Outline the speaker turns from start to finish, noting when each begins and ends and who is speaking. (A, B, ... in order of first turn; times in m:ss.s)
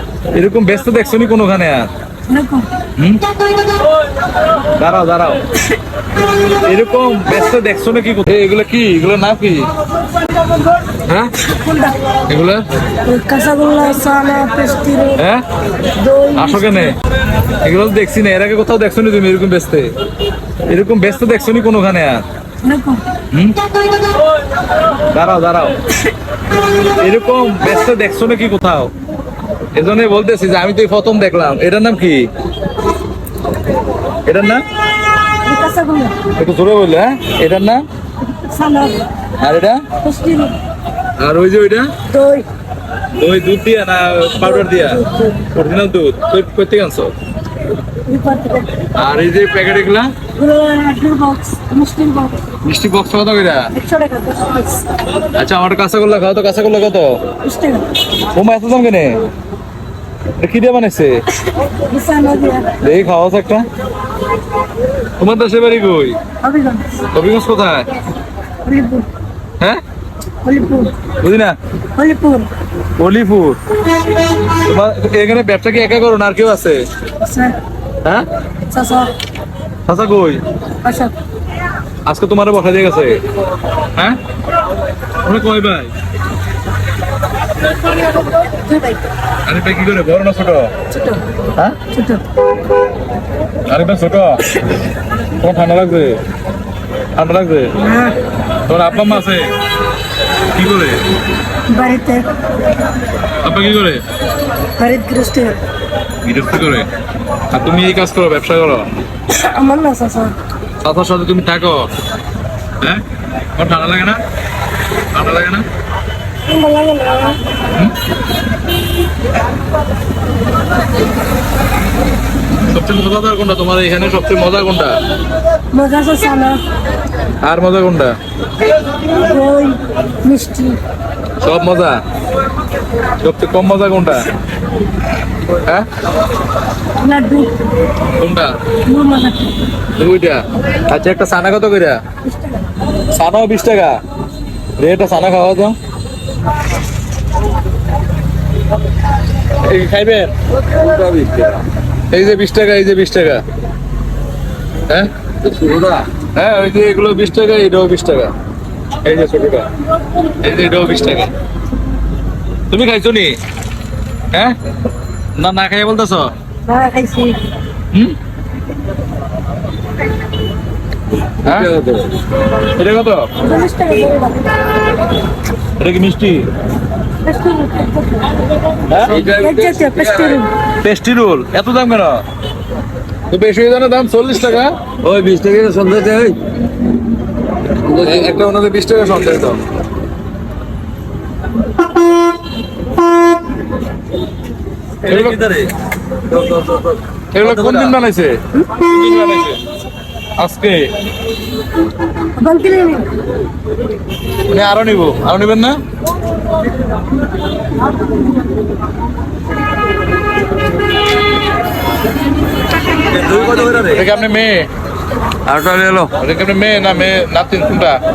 0:00.3-0:01.9 A
0:02.3-0:02.7 B
0:04.8-0:05.4 A
0:06.6-0:09.7 A
0:11.1-0:11.3 A
0:11.4-0:12.0 B
0:12.3-0:12.6 A
0:13.1-0:15.2 B
0:15.2-0:15.4 A
0:16.0-0:17.0 B
0:16.4-0:17.0 A
0:17.6-0:19.9 A
0:20.7-0:22.2 A
0:22.6-0:23.0 B
0:23.3-0:23.6 A
0:25.1-0:25.8 A
0:27.0-0:28.9 A
0:29.8-0:32.3 A
0:34.2-0:34.6 A
0:35.4-0:36.2 B
0:36.4-0:37.8 A
0:38.3-0:39.0 B
0:39.4-0:39.8 A
0:40.0-0:40.6 B
0:41.2-0:41.9 A
0:42.1-0:42.5 B
0:43.2-0:45.0 A
0:44.4-0:45.4 B
0:45.5-0:47.1 A
0:48.1-0:48.8 B
0:49.0-0:50.1 A
0:50.4-0:52.4 B
0:52.6-0:53.7 A
0:53.8-0:54.9 B
0:55.4-0:57.2 A
0:57.4-0:57.9 B
0:58.3-0:59.2 A
1:00.4-1:01.2 A
1:01.9-1:02.7 B
1:02.8-1:03.6 A
1:05.2-1:06.2 A
1:06.4-1:06.9 B
1:07.1-1:07.9 A
1:08.6-1:09.1 B
1:10.4-1:10.9 B
1:11.2-1:11.6 A
1:12.0-1:12.5 B
1:13.0-1:13.6 A
1:14.6-1:16.8 A
1:17.2-1:17.6 B
1:18.7-1:19.1 B
1:19.9-1:20.4 A
1:20.8-1:21.1 B
1:22.1-1:23.2 A
1:25.2-1:25.9 A
1:28.2-1:29.0 B
1:29.5-1:30.7 A
1:30.9-1:31.2 B
1:31.9-1:32.2 B
1:33.7-1:34.4 A
1:35.4-1:36.2 A
1:37.2-1:37.7 A
1:37.8-1:38.2 B
1:38.7-1:39.5 A
1:38.9-1:39.2 B
1:40.5-1:41.0 A
1:41.7-1:42.3 B
1:43.4-1:44.0 A
1:44.8-1:45.6 B
1:46.2-1:46.9 A
1:47.5-1:48.9 A
1:49.3-1:50.4 B
1:50.8-1:51.9 A
1:53.6-1:54.2 A
1:55.1-1:55.6 A
1:56.5-1:57.4 B
2:02.7-2:05.0 A
2:05.7-2:06.6 B
2:07.4-2:08.1 A
2:09.1-2:10.8 B
2:11.4-2:12.0 A
2:13.2-2:14.3 A
2:15.6-2:15.9 A
2:17.0-2:17.5 B
2:18.2-2:18.5 A
2:18.9-2:19.6 B
2:20.0-2:22.0 A
2:22.2-2:22.6 B
2:23.1-2:24.0 A
2:24.8-2:25.8 A
2:29.6-2:30.3 A
2:30.7-2:31.6 C
2:32.1-2:33.4 A
2:35.4-2:36.1 C
2:36.4-2:38.3 A
2:39.0-2:39.7 A
2:40.4-2:41.3 A
2:42.7-2:43.4 A
2:45.4-2:46.3 A
2:46.7-2:47.4 B
2:51.4-2:51.7 A
2:51.4-2:52.1 C
2:52.7-2:53.3 A
2:53.4-2:54.4 B
2:55.8-2:56.5 A
2:57.2-2:58.3 B
2:58.9-2:59.2 A
2:59.1-3:00.4 C
2:59.2-3:00.5 B
3:00.8-3:02.2 A
3:03.3-3:04.7 A
3:05.0-3:06.4 C
3:07.9-3:09.6 A
3:15.1-3:15.4 A
3:15.1-3:15.7 C
3:16.3-3:18.0 C
3:17.3-3:19.6 A
3:20.4-3:20.9 A
3:22.4-3:23.1 B
3:24.5-3:25.8 A
3:33.1-3:34.0 C
3:33.4-3:34.7 A
3:35.5-3:36.1 C
3:36.2-3:38.0 A